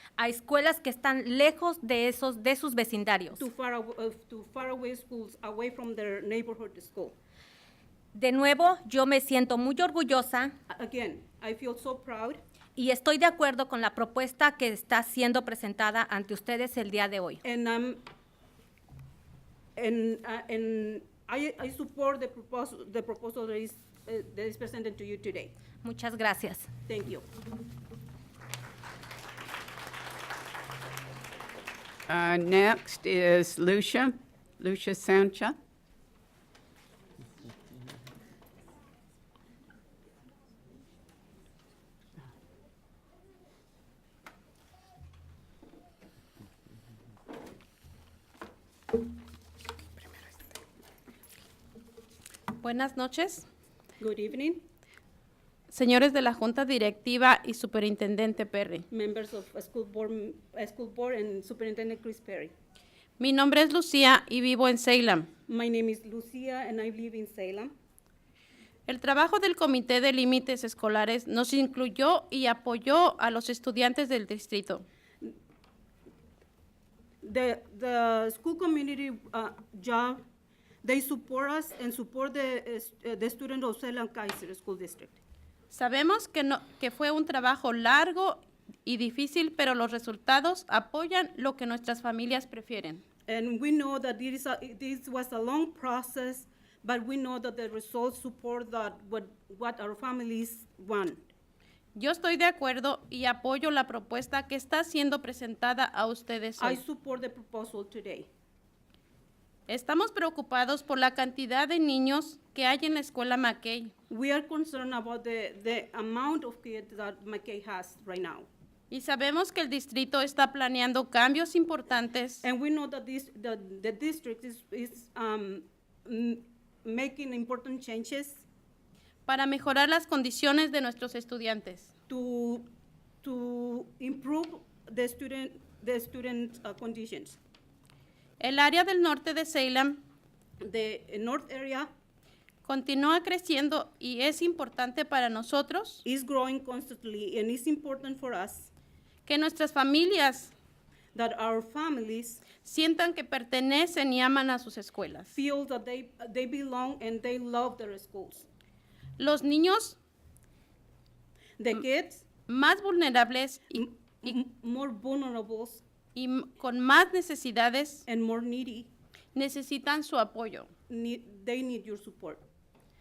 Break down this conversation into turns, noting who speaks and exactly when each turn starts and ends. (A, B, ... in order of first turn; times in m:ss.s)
0:00.2-0:03.4 A
0:03.4-0:07.2 B
0:08.2-0:10.5 A
0:10.7-0:12.4 B
0:12.8-0:17.4 A
0:17.4-0:18.0 B
0:19.8-0:25.5 B
0:25.8-0:26.7 A
0:26.9-0:27.3 B
0:32.1-0:35.6 C
0:52.6-0:53.5 D
0:54.0-0:54.6 B
0:55.7-0:58.9 D
0:58.9-1:02.5 B
1:03.2-1:05.3 D
1:05.5-1:07.7 B
1:08.9-1:14.9 D
1:17.2-1:20.2 B
1:20.8-1:25.2 B
1:25.7-1:33.0 D
1:33.3-1:41.2 B
1:42.0-1:46.8 D
1:46.6-1:48.3 B
1:49.7-1:53.9 D
1:54.1-1:58.5 B
1:58.9-2:02.5 D
2:02.4-2:08.5 B
2:09.3-2:11.9 D
2:12.1-2:12.7 B
2:13.2-2:17.4 B
2:18.4-2:20.0 D
2:20.6-2:21.9 B
2:22.6-2:26.0 D
2:26.0-2:28.7 B
2:29.3-2:30.5 D
2:31.2-2:32.5 B
2:32.6-2:35.3 D
2:35.3-2:38.5 B
2:39.2-2:40.0 D
2:41.6-2:42.2 B
2:42.5-2:44.3 D
2:43.7-2:45.8 B
2:46.2-2:48.1 D
2:48.1-2:48.9 B
2:49.4-2:50.7 D
2:50.9-2:52.4 B